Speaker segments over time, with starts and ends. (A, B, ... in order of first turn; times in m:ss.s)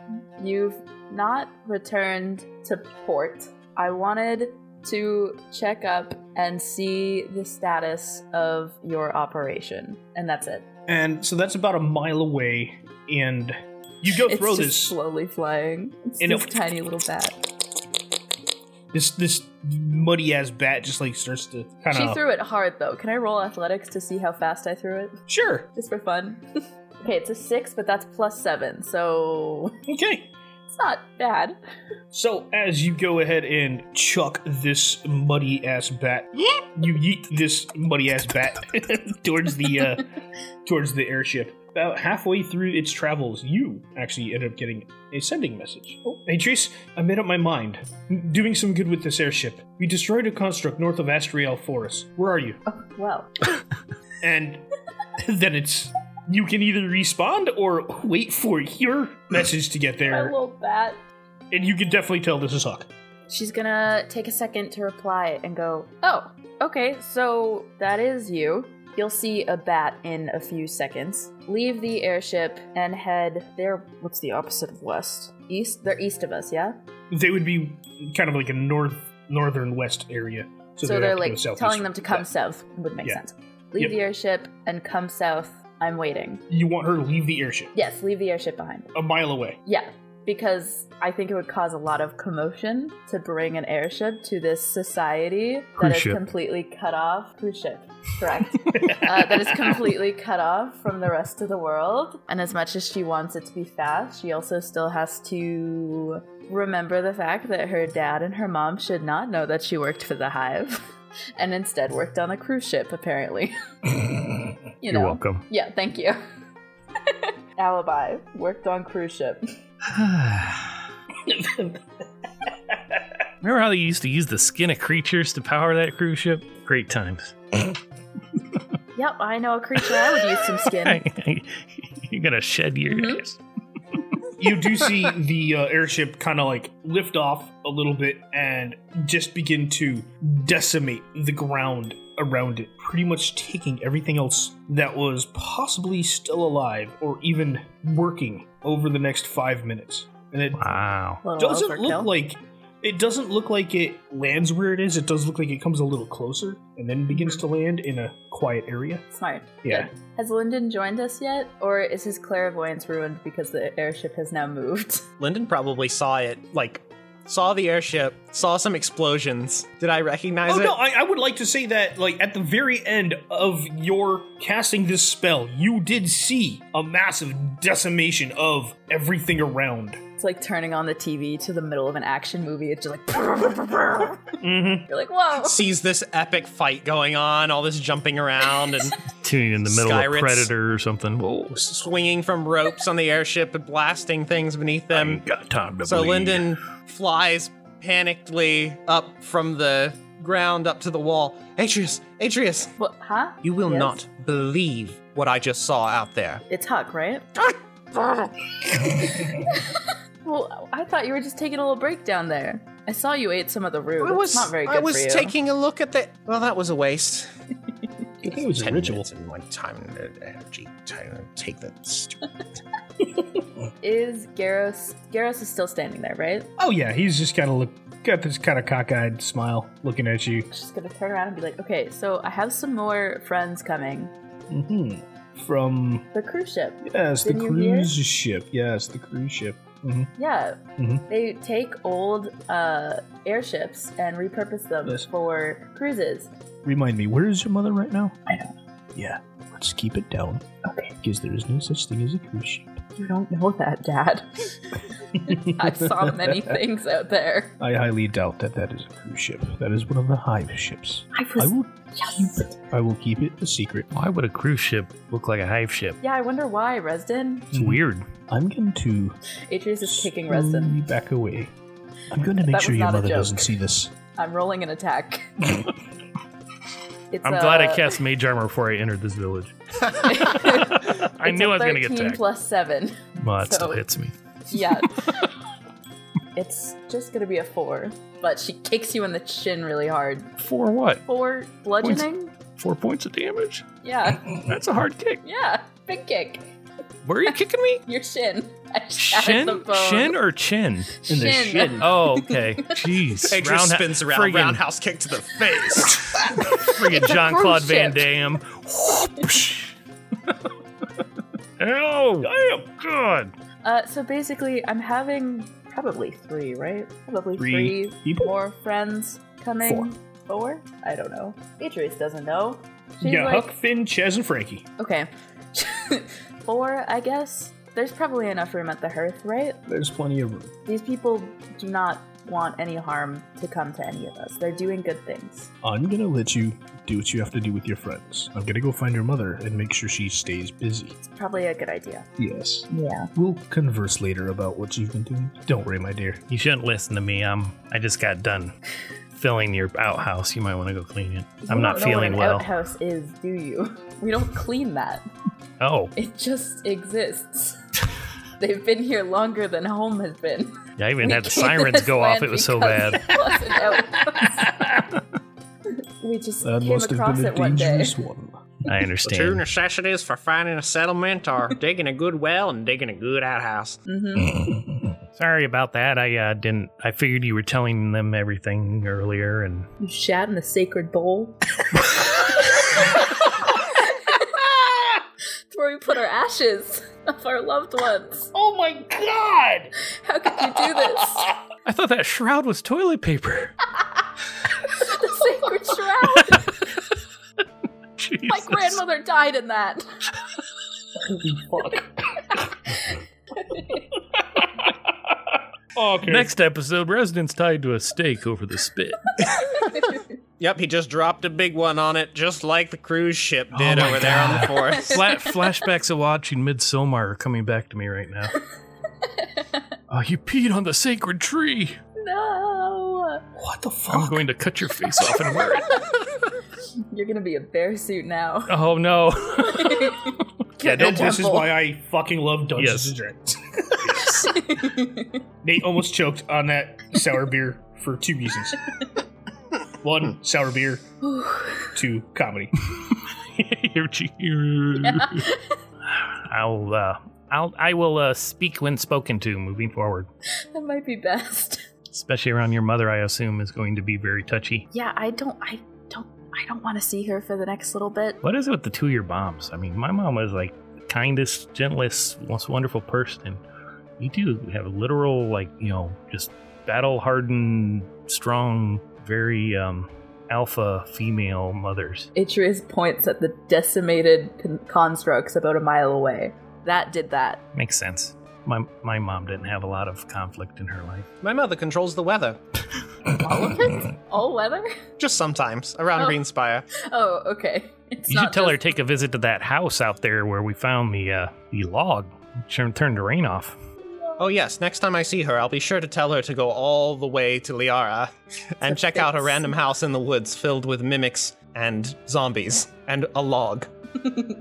0:00.4-0:10.7 A
0:10.9-0:15.0 B
0:14.3-0:17.4 A
0:16.2-0:16.5 B
0:18.9-0:22.2 B
0:21.9-0:25.2 A
0:25.3-0:25.7 B
0:25.7-0:26.4 A
0:27.0-0:29.7 A
0:29.9-0:30.3 B
0:30.7-0:31.6 A
0:32.1-0:40.1 B
0:40.6-0:52.6 B
0:52.7-0:53.3 A
0:54.2-0:54.7 B
0:55.2-1:00.4 B
1:00.1-1:01.0 A
1:01.5-1:02.9 B
1:03.3-1:16.8 A
1:17.1-1:22.3 B
1:20.8-1:26.4 A
1:26.5-1:27.7 B
1:27.7-1:28.9 A
1:28.9-1:29.6 B
1:29.7-1:53.6 A
1:35.8-1:36.2 C
1:38.7-1:39.8 B
1:54.8-1:56.2 A
1:54.8-1:55.4 C
1:57.1-1:59.4 A
1:59.9-2:00.7 C
2:01.2-2:01.8 B
2:02.7-2:03.0 B
2:03.4-2:07.8 C
2:09.0-2:11.0 A
2:10.4-2:13.4 C
2:12.9-2:13.2 A
2:14.4-2:30.8 B
2:30.6-2:31.2 C
2:31.2-2:32.1 A
2:31.4-2:39.0 B
2:39.1-2:45.0 A
2:39.6-2:39.9 B
2:45.2-2:50.8 D
2:50.5-3:00.0 B
3:00.2-3:05.6 A
3:04.4-3:04.9 B
3:05.4-3:09.1 D
3:09.1-3:11.6 C
3:09.7-3:10.5 D
3:11.5-3:15.2 D
3:14.9-3:16.6 C
3:15.8-3:22.7 D
3:22.8-3:24.0 A
3:23.4-3:26.4 D
3:26.5-3:27.3 A
3:27.4-3:28.3 D
3:29.4-3:35.4 A
3:34.0-3:37.3 D
3:38.2-3:39.1 B
3:38.4-3:42.3 D
3:43.8-3:46.5 A
3:46.6-3:50.5 B
3:50.5-3:54.1 A
3:54.5-3:56.1 B
3:56.1-3:57.9 A
3:56.8-4:00.1 B
4:00.2-4:06.3 A
4:00.8-4:01.0 B
4:06.6-4:08.2 B
4:08.3-4:08.5 A
4:09.0-4:10.4 B
4:10.6-4:10.9 A
4:11.0-4:12.8 B
4:13.0-4:17.6 A
4:15.2-4:16.6 B
4:17.6-4:23.9 B
4:21.1-4:22.5 A
4:23.9-4:26.0 C
4:26.0-4:27.5 A
4:27.5-4:29.2 B
4:27.5-4:28.1 C
4:29.5-4:30.8 A
4:29.9-4:31.5 B
4:32.1-4:33.9 B
4:32.4-4:33.6 A
4:34.2-4:35.3 A
4:37.1-4:38.0 A
4:37.2-4:42.2 C
4:39.9-4:43.8 A
4:43.2-4:44.1 C
4:44.5-4:45.2 A
4:44.7-4:45.3 C
4:46.4-4:50.3 A
4:50.4-4:51.0 C
4:51.1-4:52.3 A
4:52.6-4:53.7 C
4:53.8-4:54.3 A
4:54.3-4:55.2 C
4:55.2-4:56.6 A
4:57.0-4:57.8 C
4:57.9-5:00.2 A
4:59.0-5:01.0 C
5:01.0-5:02.8 A
5:01.1-5:01.9 B
5:01.8-5:04.6 C
5:03.2-5:06.2 D
5:05.8-5:09.7 C
5:06.5-5:08.1 A
5:11.6-5:13.3 C
5:12.2-5:12.7 B
5:13.6-5:23.5 A
5:17.4-5:18.3 B
5:19.6-5:19.9 B
5:23.0-5:24.7 B
5:24.8-5:29.6 A
5:29.7-5:30.5 B
5:30.7-5:35.5 A
5:35.6-5:41.0 B
5:41.0-5:42.1 A
5:42.2-5:46.2 B
5:42.7-5:43.1 A
5:46.3-5:48.5 C
5:49.2-5:52.5 C
5:51.4-5:55.0 A
5:55.6-5:55.9 C
5:56.0-5:57.6 A
5:58.4-6:04.4 A
6:00.8-6:03.2 C
6:04.2-6:05.0 B
6:05.7-6:08.0 A
6:06.4-6:08.7 B
6:08.6-6:09.4 C
6:09.0-6:13.8 D
6:13.9-6:14.4 A
6:15.2-6:19.7 C
6:19.8-6:21.4 A
6:22.1-6:23.2 A
6:23.8-6:24.2 A
6:24.2-6:25.0 B
6:25.5-6:28.3 A
6:28.3-6:29.7 B
6:29.8-6:31.3 A
6:30.4-6:31.4 B
6:31.6-6:33.6 C
6:34.6-6:36.7 A
6:38.0-6:38.8 C
6:38.3-6:39.9 A
6:41.0-6:42.5 B
6:43.4-6:43.8 A
6:44.0-6:46.3 B
6:46.1-6:49.2 C
6:49.7-6:50.0 A
6:50.4-6:55.0 D
6:53.5-6:58.4 C
6:53.7-6:54.4 B
6:59.0-6:59.6 A
6:59.9-7:01.8 C
7:02.0-7:03.2 A
7:03.4-7:04.2 B
7:03.9-7:05.8 C
7:06.9-7:08.5 A
7:08.5-7:11.2 C
7:09.5-7:11.5 A
7:10.6-7:14.1 B
7:12.6-7:12.9 C
7:13.8-7:14.4 C
7:14.1-7:15.2 A
7:15.4-7:18.7 B
7:19.8-7:20.8 B
7:21.0-7:21.7 A
7:21.8-7:22.5 B
7:22.8-7:25.3 C
7:24.8-7:25.6 A
7:25.9-7:30.1 C
7:30.5-7:31.6 A
7:31.9-7:34.7 C
7:34.7-7:38.2 A
7:38.2-7:43.4 C
7:44.0-7:52.1 C
7:52.2-7:57.4 A
7:57.6-8:01.1 C
8:01.2-8:02.4 D
8:03.2-8:04.8 A
8:05.0-8:06.7 D
8:06.7-8:08.6 A
8:08.1-8:13.6 C
8:14.2-8:23.7 D
8:18.7-8:19.5 A